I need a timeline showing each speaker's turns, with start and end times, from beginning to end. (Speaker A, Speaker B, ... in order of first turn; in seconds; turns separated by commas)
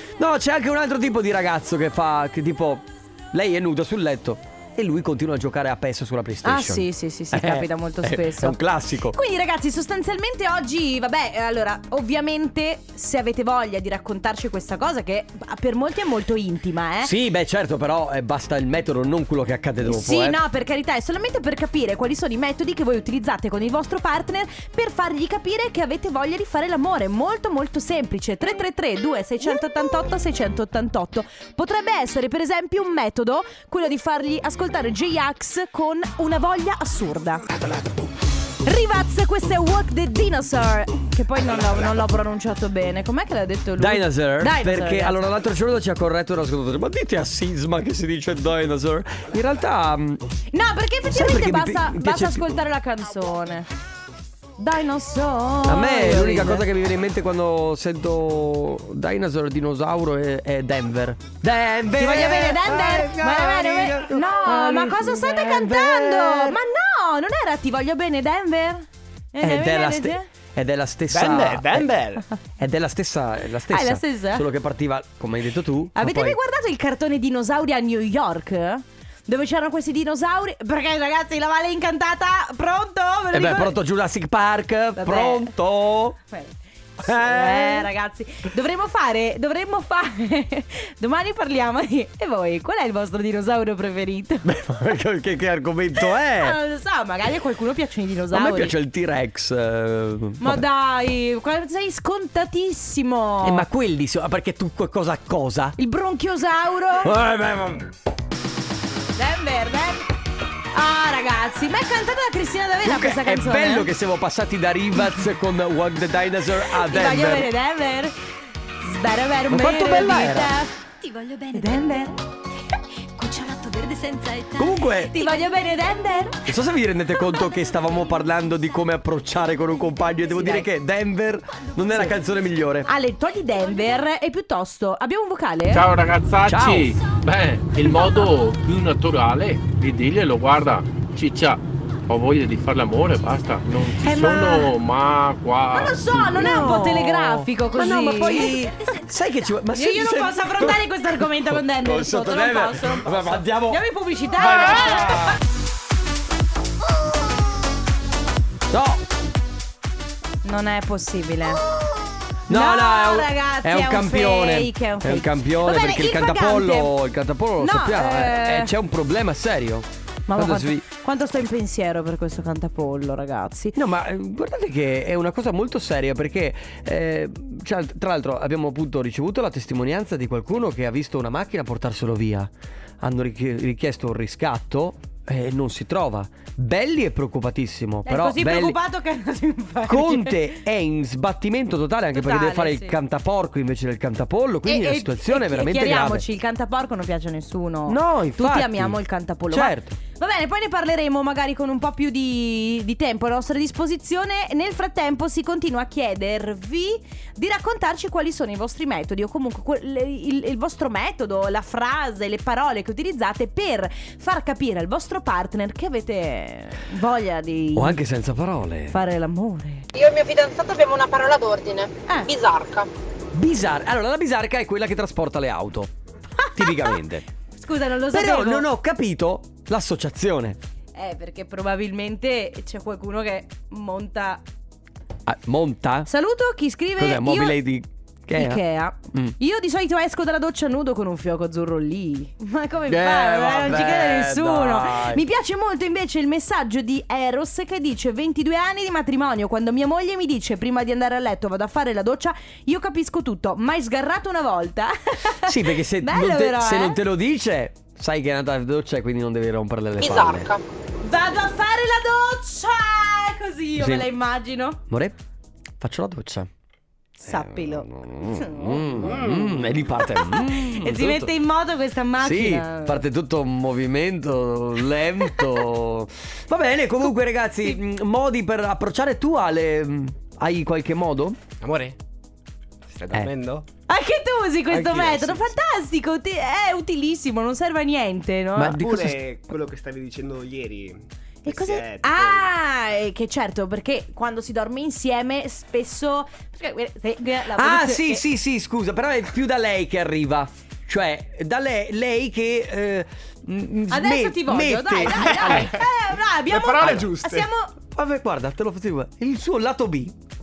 Speaker A: 0.2-9.2, Speaker B: 6.4-8.6, Speaker B: 9.1-17.1, Speaker A: 17.0-20.4, Speaker B: 19.8-37.5, Speaker B: 38.6-45.2, Speaker A: 43.8-50.2, Speaker B: 50.5-53.7, Speaker A: 51.1-52.6, Speaker B: 54.6-56.7, Speaker A: 55.7-66.6, Speaker B: 62.0-70.3, Speaker A: 69.4-72.0, Speaker C: 71.1-72.2, Speaker A: 72.6-76.4, Speaker B: 73.7-74.5, Speaker B: 76.0-83.8, Speaker A: 83.3-86.2, Speaker B: 85.0-85.5, Speaker B: 86.3-94.6, Speaker A: 87.0-87.9, Speaker A: 94.5-96.6, Speaker B: 96.2-98.8, Speaker A: 98.3-100.7, Speaker B: 100.4-103.7, Speaker A: 103.4-105.8, Speaker B: 105.8-107.1, Speaker A: 107.0-107.9, Speaker B: 109.2-110.0, Speaker B: 110.7-113.9, Speaker A: 112.8-117.5, Speaker B: 116.7-118.1, Speaker B: 118.8-120.7, Speaker A: 119.5-120.5, Speaker D: 121.0-122.1, Speaker B: 121.5-122.2, Speaker D: 123.2-125.9, Speaker A: 124.6-125.2, Speaker B: 125.1-126.4, Speaker A: 126.5-132.9, Speaker B: 130.3-130.7, Speaker B: 132.9-135.9, Speaker E: 135.7-146.3, Speaker A: 136.4-137.0, Speaker A: 137.9-138.1, Speaker B: 144.1-144.7, Speaker B: 145.7-148.7, Speaker A: 146.0-153.8, Speaker D: 148.5-148.9, Speaker B: 149.7-155.4, Speaker A: 154.3-155.4, Speaker A: 158.7-159.0, Speaker B: 160.4-161.6, Speaker A: 162.5-170.8, Speaker B: 162.5-166.9, Speaker B: 167.6-168.7, Speaker B: 170.3-173.8, Speaker A: 173.7-188.8, Speaker B: 188.1-190.4, Speaker A: 189.9-196.2, Speaker B: 192.1-193.0, Speaker B: 194.7-218.0, Speaker A: 197.9-199.0, Speaker A: 199.5-200.0, Speaker A: 217.8-219.0, Speaker B: 218.9-219.9, Speaker F: 219.9-222.9, Speaker A: 223.3-225.9, Speaker B: 226.4-227.0, Speaker A: 226.6-227.2, Speaker B: 227.6-228.7, Speaker A: 228.1-230.6, Speaker B: 230.9-234.4, Speaker A: 235.3-236.1, Speaker B: 236.1-237.6, Speaker A: 237.0-239.3, Speaker B: 238.3-257.0, Speaker A: 242.9-245.2, Speaker A: 255.4-260.5, Speaker F: 260.0-260.6, Speaker B: 261.0-264.8, Speaker A: 263.8-264.1, Speaker A: 264.9-265.2, Speaker A: 265.8-266.5, Speaker B: 267.2-269.1, Speaker A: 267.3-271.4, Speaker C: 268.9-269.8, Speaker B: 270.1-273.1, Speaker A: 272.2-281.4, Speaker B: 275.4-275.6, Speaker C: 281.6-282.0, Speaker C: 282.9-283.7, Speaker B: 283.9-288.8, Speaker C: 284.7-285.5, Speaker A: 288.6-289.2, Speaker C: 288.8-292.5, Speaker B: 291.4-298.2, Speaker A: 297.5-305.8, Speaker B: 303.9-307.7, Speaker C: 305.2-305.8, Speaker C: 306.5-307.5, Speaker A: 306.8-307.1, Speaker A: 307.9-310.2